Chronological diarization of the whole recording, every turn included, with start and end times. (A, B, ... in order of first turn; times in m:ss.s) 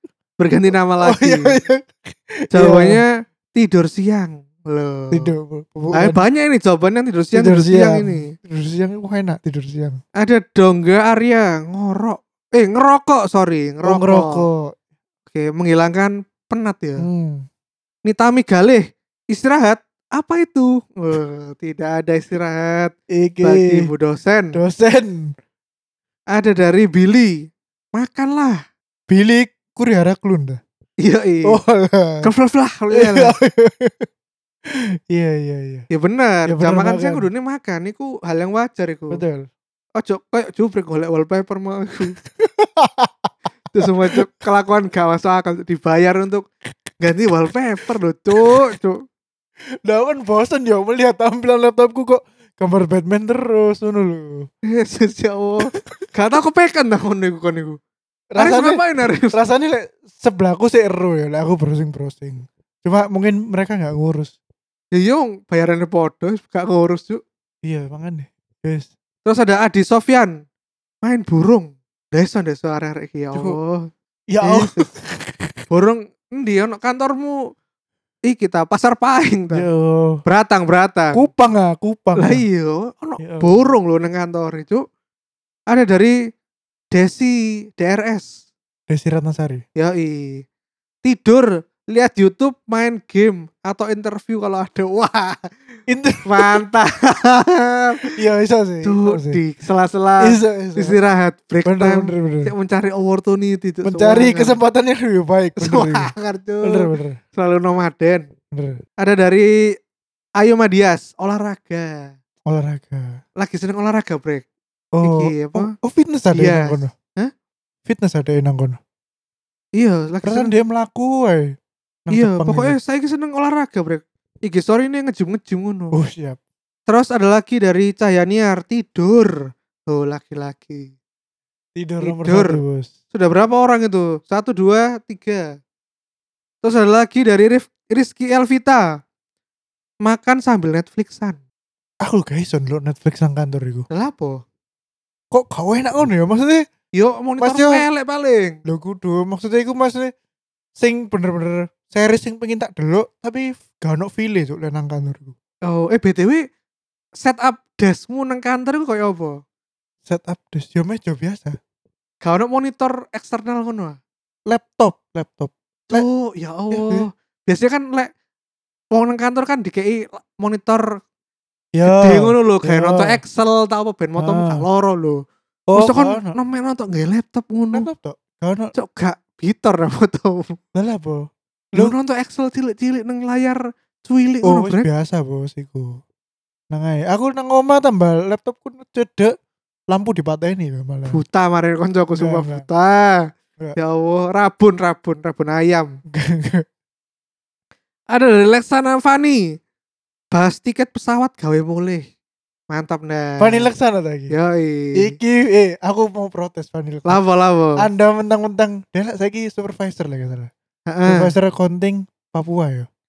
0:00.4-0:01.6 A
0:01.0-0:03.0 B
0:02.5-0:05.3 A
0:05.1-0:06.2 B
0:05.9-0:08.3 A
0:07.3-0:10.0 B
0:10.2-0:14.5 A
0:13.8-0:14.7 B
0:15.3-0:17.1 A
0:17.0-0:17.5 B
0:18.1-0:24.6 A
0:23.1-0:23.9 B
0:24.6-0:25.3 B
0:26.3-0:27.4 A
0:27.9-0:28.6 A
0:29.1-0:30.6 B
0:31.0-0:31.6 A
0:31.5-0:32.3 B
0:32.2-0:33.4 A
0:32.9-0:34.1 B
0:34.7-0:35.9 B
0:35.9-0:39.2 A
0:36.5-0:37.3 B
0:39.1-0:39.5 B
0:40.0-0:42.2 A
0:42.2-0:44.3 B
0:43.7-0:46.5 A
0:47.0-0:49.0 A
0:49.8-0:54.5 B
0:54.7-0:57.8 A
0:58.3-1:04.3 B
0:58.4-0:59.4 A
1:04.9-1:07.2 A
1:07.6-1:08.9 B
1:09.2-1:10.4 A
1:11.0-1:13.9 A
1:14.3-1:15.6 B
1:14.4-1:14.9 A
1:15.7-1:17.4 A
1:18.3-1:19.7 A
1:19.5-1:20.2 B
1:20.3-1:21.2 A
1:21.1-1:22.4 B
1:22.2-1:24.8 A
1:23.2-1:23.7 B
1:25.7-1:26.2 A
1:26.9-1:28.4 A
1:28.9-1:29.6 B
1:29.8-1:30.5 A
1:31.0-1:35.5 A
1:35.9-1:36.6 B
1:36.3-1:38.0 A
1:38.2-1:39.4 B
1:38.8-1:44.6 A
1:40.2-1:41.0 B
1:41.6-1:42.5 B
1:43.8-1:46.1 B
1:45.6-1:48.3 A
1:46.6-1:47.2 B
1:48.5-1:48.8 B
1:49.0-1:49.5 A
1:50.4-1:52.1 A
1:52.5-1:53.2 B
1:53.4-1:54.4 A
1:55.0-1:56.9 B
1:55.0-1:55.7 A
1:56.3-1:57.3 A
1:57.9-1:58.8 B
1:59.8-2:00.5 A
2:00.2-2:01.6 B
2:02.1-2:02.8 B
2:02.1-2:06.0 A
2:05.9-2:06.4 B
2:06.9-2:09.3 A
2:09.9-2:10.9 A
2:11.8-2:12.9 B
2:12.0-2:12.6 A
2:13.1-2:15.6 A
2:16.6-2:18.8 A
2:20.0-2:21.4 A
2:22.0-2:23.9 B
2:23.9-2:24.4 A
2:25.3-2:26.6 B
2:27.0-2:28.6 A
2:27.4-2:27.8 B
2:28.7-2:30.1 B
2:30.8-2:35.4 B
2:35.7-2:36.5 A
2:37.2-2:39.4 A
2:40.0-2:41.6 B
2:42.2-2:44.0 A
2:44.5-2:46.0 B
2:45.9-2:48.1 A
2:46.7-2:47.1 B
2:48.9-2:51.0 A
2:51.8-2:53.2 B
2:51.8-2:55.2 A
2:54.2-2:54.6 B
2:55.7-2:56.4 B
2:55.7-2:57.9 A
2:57.7-2:58.7 B
2:58.8-3:00.6 A
3:00.8-3:02.0 B
3:01.8-3:04.9 A
3:04.4-3:06.0 B
3:06.7-3:09.3 B
3:09.9-3:11.2 B
3:11.1-3:16.0 A
3:12.2-3:12.6 B
3:16.1-3:16.6 B
3:18.1-3:19.4 A
3:20.3-3:22.1 A
3:22.7-3:23.7 A
3:23.4-3:24.3 B
3:24.3-3:25.2 A
3:25.0-3:27.2 B
3:27.1-3:27.9 A
3:27.8-3:30.5 B
3:30.9-3:31.3 A
3:31.1-3:32.9 B